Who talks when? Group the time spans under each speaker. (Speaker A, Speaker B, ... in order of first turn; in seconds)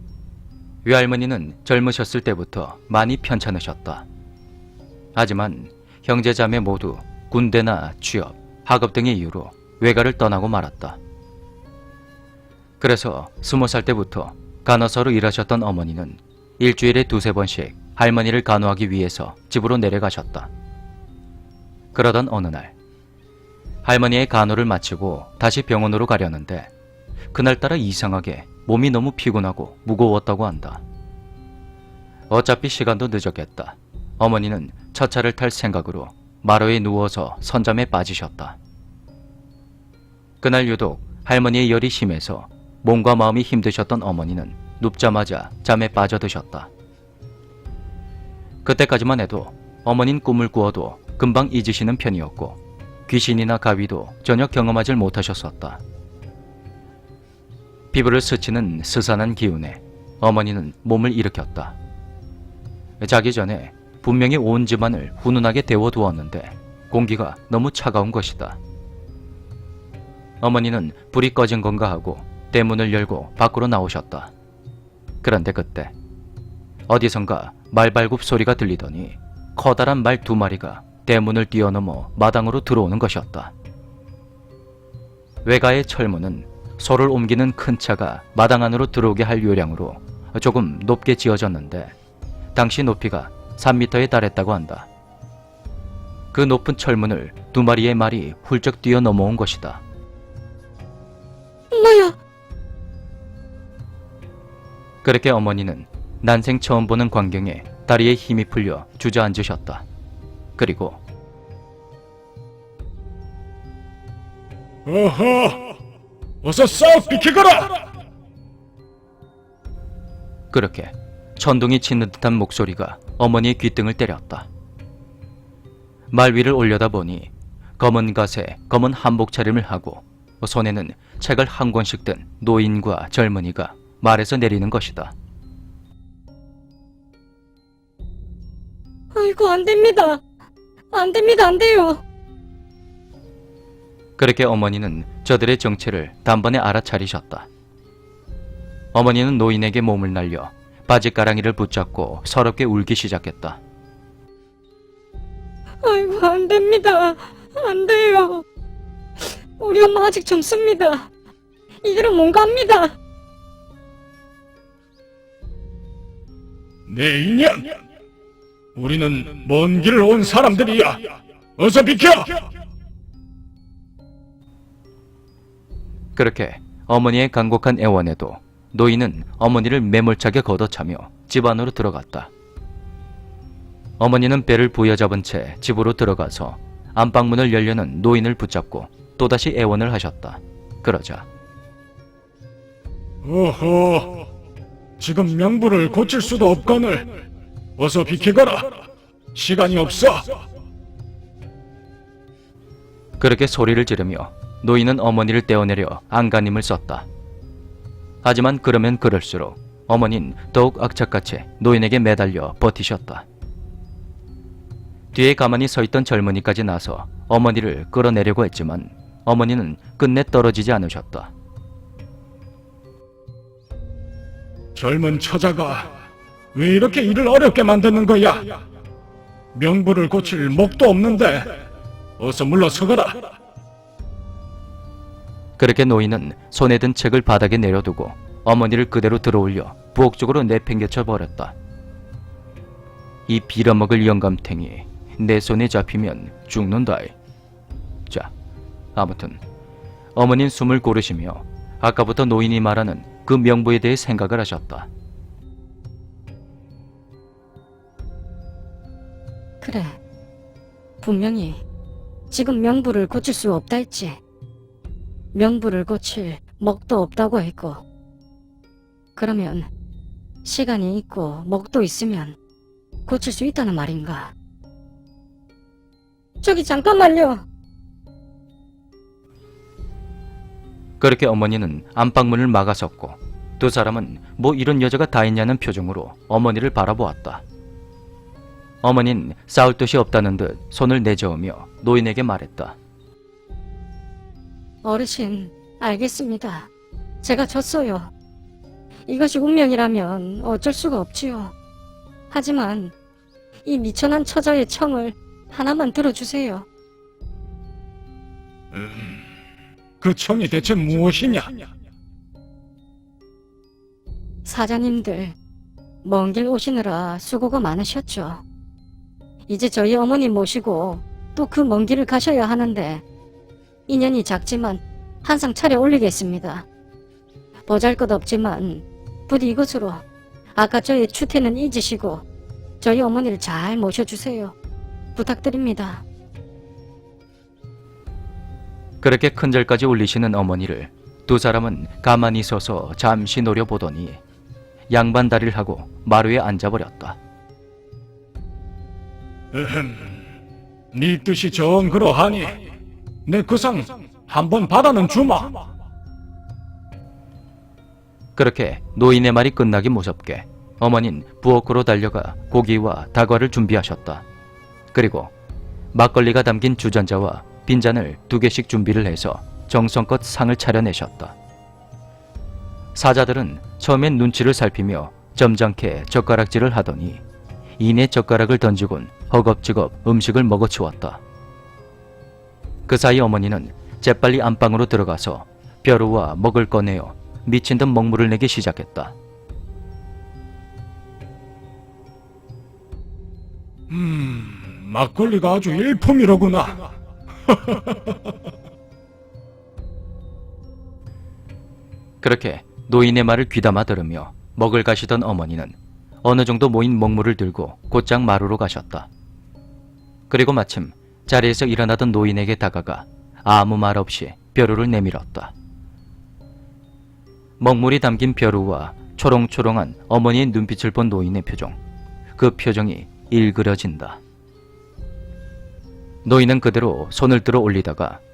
Speaker A: 0.8-4.1, 5.2-11.0, 12.8-20.5, 21.9-22.7, 23.8-26.7, 27.3-30.8, 32.3-38.6, 40.4-46.7, 48.6-55.8, 57.9-61.8, 63.0-68.6, 70.4-74.3, 75.2-75.9, 76.9-83.5, 85.4-91.9, 92.5-94.9, 96.3-99.8, 105.0-109.8, 110.6-111.0, 120.5-124.5, 126.1-135.1, 144.2-147.5, 148.9-153.6, 176.2-182.3, 184.0-191.3, 203.2-207.1, 208.2-213.2, 215.1-221.3, 235.6-241.6, 243.3-247.2, 248.9-249.4, 250.2-254.9, 281.0-287.4, 288.8-292.8, 339.0-344.2, 344.9-347.2, 358.4-364.2, 364.9-365.3, 365.9-371.4, 372.9-377.2, 377.8-381.2, 382.9-389.1, 402.2-409.1, 410.3-415.5, 417.6-421.8, 422.4-424.2, 426.2-428.2
Speaker B: 101.7-102.2, 139.1-140.2, 140.9-142.0, 155.8-158.4, 159.6-161.1, 161.8-163.0, 259.6-260.0, 261.0-261.6, 262.3-264.2, 265.3-267.8, 269.2-269.7, 270.4-272.4, 273.1-274.3, 276.4-277.4, 294.8-296.7, 297.2-298.1, 299.1-301.5, 302.3-302.9, 303.6-306.6, 314.4-315.4, 316.0-318.4, 319.5-323.0, 323.9-326.7, 327.7-330.0, 330.6-332.2, 332.8-334.5, 335.2-336.0
Speaker C: 114.9-115.7, 116.4-117.8, 166.9-167.8, 168.8-172.4, 193.2-194.3, 195.0-197.2, 197.8-198.8, 199.3-200.4, 224.8-225.9, 226.5-228.6, 229.5-231.5, 232.2-233.3, 308.7-309.1, 310.0-311.6, 349.5-350.1, 350.9-352.6, 353.3-355.6, 393.9-396.8, 397.5-398.1